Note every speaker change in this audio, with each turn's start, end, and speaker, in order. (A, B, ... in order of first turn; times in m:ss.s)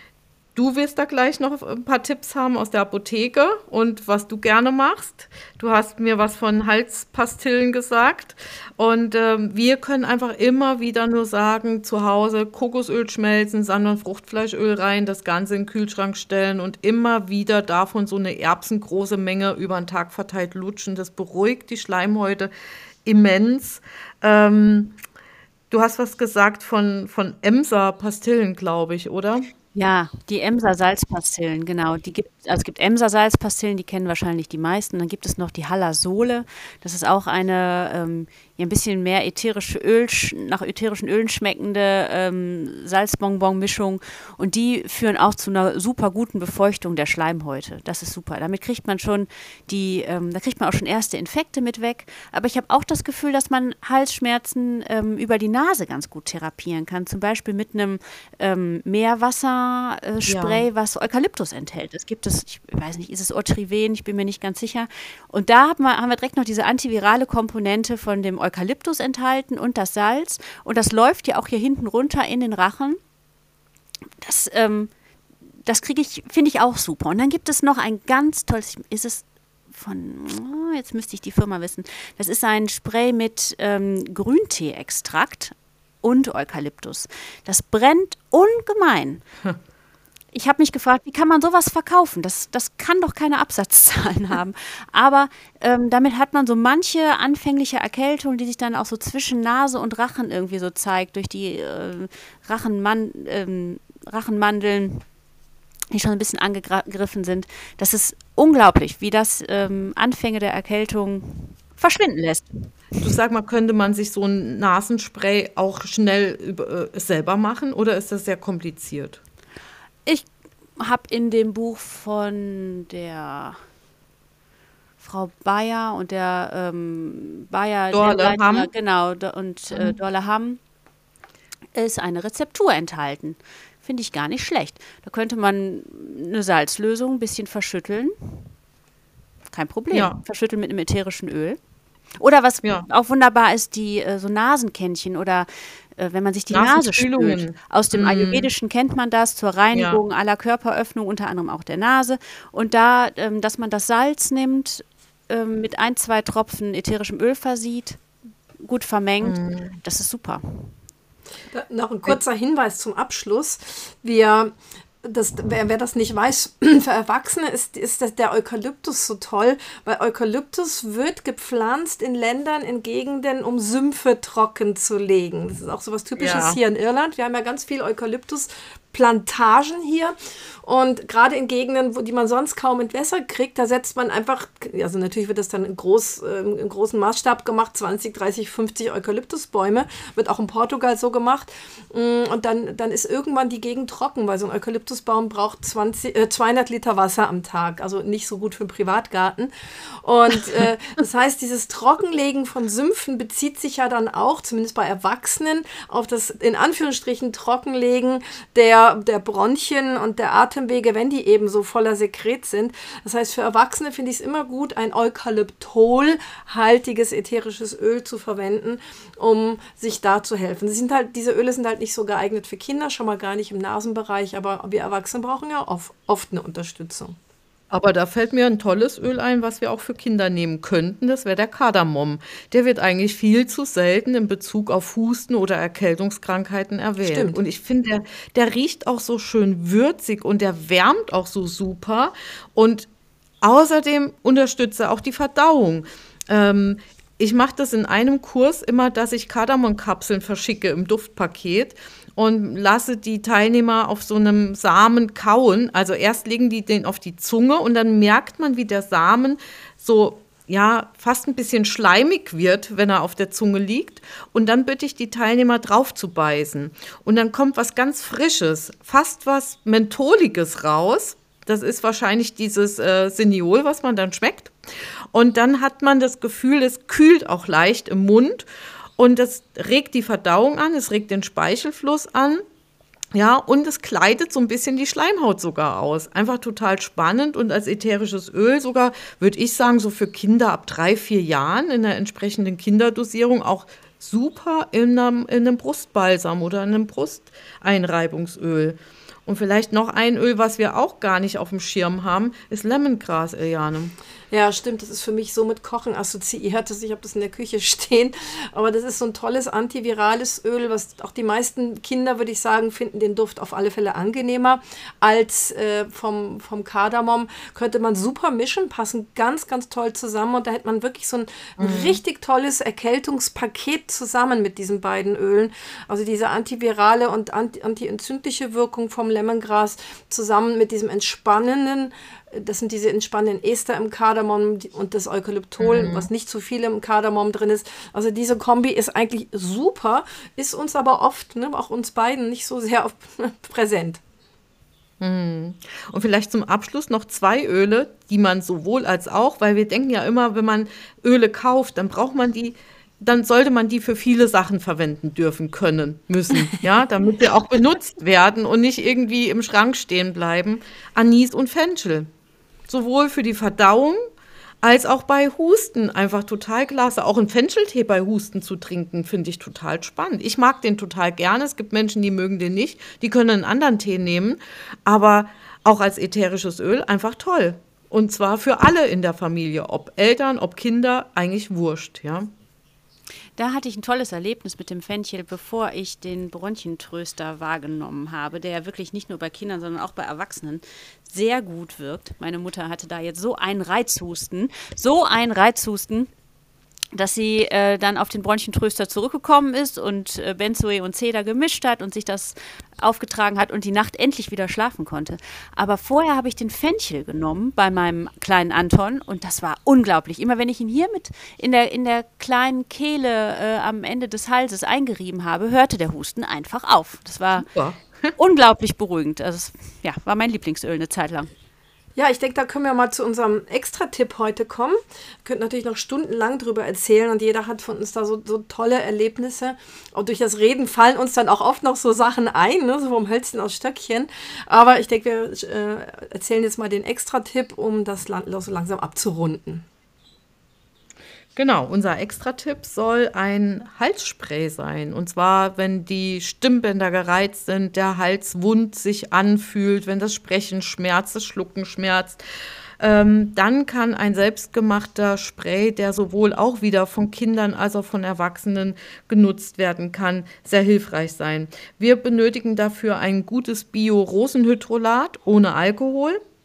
0:00.6-0:22.5 A
0:23.0-0:25.0 A
0:25.7-0:29.5 A
0:29.7-1:13.0 B
1:00.3-1:00.6 A
1:14.2-1:14.9 B
1:15.6-1:29.2 B
1:30.3-1:45.0 B
1:45.9-1:52.6 B
1:53.0-1:59.2 A
2:00.8-2:03.6 B
2:05.0-2:10.6 B
2:07.9-2:08.7 A
2:11.7-2:18.5 B
2:19.5-2:21.6 B
2:19.9-2:20.2 A
2:22.2-2:38.0 B
2:26.5-2:28.5 A
2:29.7-2:30.0 A
2:38.6-2:40.8 B
2:39.2-2:39.8 A
2:41.5-3:19.5 C
2:56.2-2:56.6 A
3:20.0-3:47.2 C
3:47.7-4:02.9 A
3:57.0-3:57.4 C
4:03.4-4:34.5 A
4:35.1-4:38.4 A
4:39.0-4:42.4 A
4:43.1-5:03.9 A
5:04.3-5:44.0 C
5:21.6-5:22.0 A
5:35.6-5:36.1 A
5:45.0-6:02.1 A
6:02.7-6:04.0 A
6:04.6-6:22.3 A
6:23.4-6:36.1 B
6:36.9-6:57.5 B
6:57.4-6:58.1 A
6:58.2-7:01.3 B
7:02.0-7:19.6 C
7:21.4-7:32.2 A
7:32.8-7:46.2 A